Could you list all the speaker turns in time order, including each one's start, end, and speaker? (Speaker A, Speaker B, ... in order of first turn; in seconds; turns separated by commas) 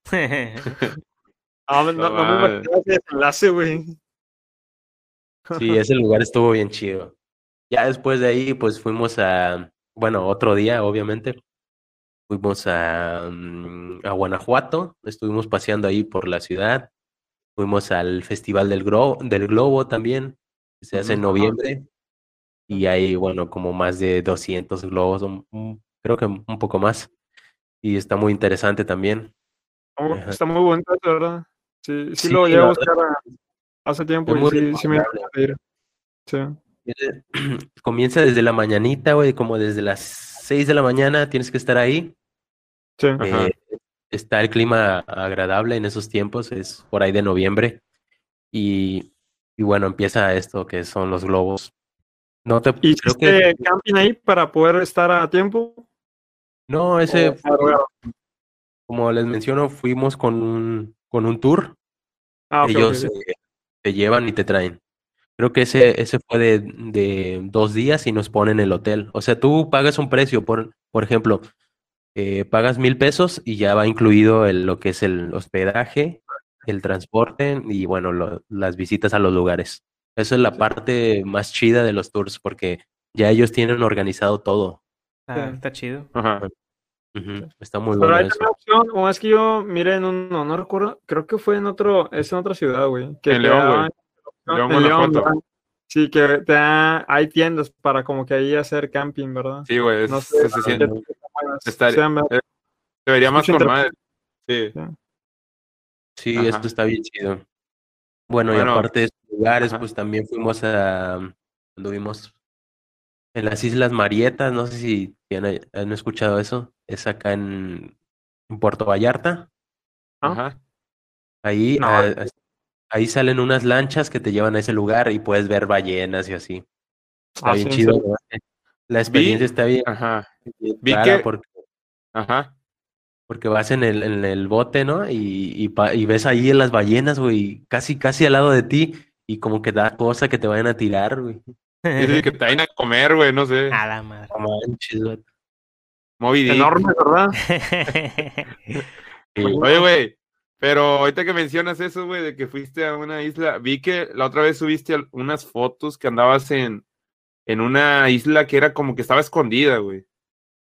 Speaker A: 0.1-0.7, Speaker B: 1.7-4.0, Speaker C: 2.0-2.7, Speaker B: 5.5-5.8, Speaker D: 5.5-7.1, Speaker D: 7.7-11.4, Speaker D: 12.3-16.9, Speaker D: 17.6-21.8, Speaker B: 21.0-21.6, Speaker D: 22.7-27.1, Speaker D: 27.8-29.3, Speaker B: 30.0-33.2, Speaker D: 30.1-30.4, Speaker D: 32.2-32.9, Speaker B: 33.9-35.6, Speaker D: 34.3-35.3, Speaker B: 36.3-36.6, Speaker D: 36.8-42.1, Speaker C: 43.2-43.5, Speaker D: 43.2-47.8, Speaker D: 48.5-51.7, Speaker D: 52.4-53.5, Speaker B: 52.8-55.8, Speaker D: 56.7-57.8, Speaker B: 57.1-57.9, Speaker D: 58.9-61.7, Speaker B: 62.5-63.1, Speaker D: 62.6-64.8, Speaker D: 65.4-71.5, Speaker D: 72.1-84.8, Speaker A: 85.3-86.1, Speaker B: 85.3-85.6, Speaker C: 86.1-86.4, Speaker D: 87.1-88.4, Speaker B: 88.0-102.3, Speaker C: 93.3-93.9, Speaker C: 94.5-95.3, Speaker C: 99.7-100.8, Speaker D: 100.6-101.0, Speaker C: 101.7-102.4, Speaker C: 103.0-103.9, Speaker B: 103.3-103.7, Speaker C: 104.5-104.7, Speaker D: 106.2-107.4, Speaker C: 106.3-106.7, Speaker D: 108.3-112.3, Speaker C: 108.5-108.8, Speaker D: 113.3-117.9, Speaker D: 118.5-119.5, Speaker C: 120.2-120.5, Speaker D: 121.4-122.3, Speaker B: 121.8-122.1, Speaker D: 122.9-126.6, Speaker B: 127.4-128.0, Speaker D: 127.4-129.9, Speaker C: 129.1-130.3, Speaker D: 130.4-131.5, Speaker C: 130.8-131.2, Speaker C: 132.1-132.5, Speaker D: 133.3-141.5, Speaker A: 141.8-142.3, Speaker C: 142.0-143.8, Speaker A: 143.7-144.3, Speaker D: 144.3-145.2, Speaker C: 146.2-146.7, Speaker B: 146.5-147.3, Speaker A: 147.5-148.8, Speaker D: 149.3-149.6, Speaker B: 149.4-149.8, Speaker C: 149.6-156.8, Speaker C: 157.5-160.0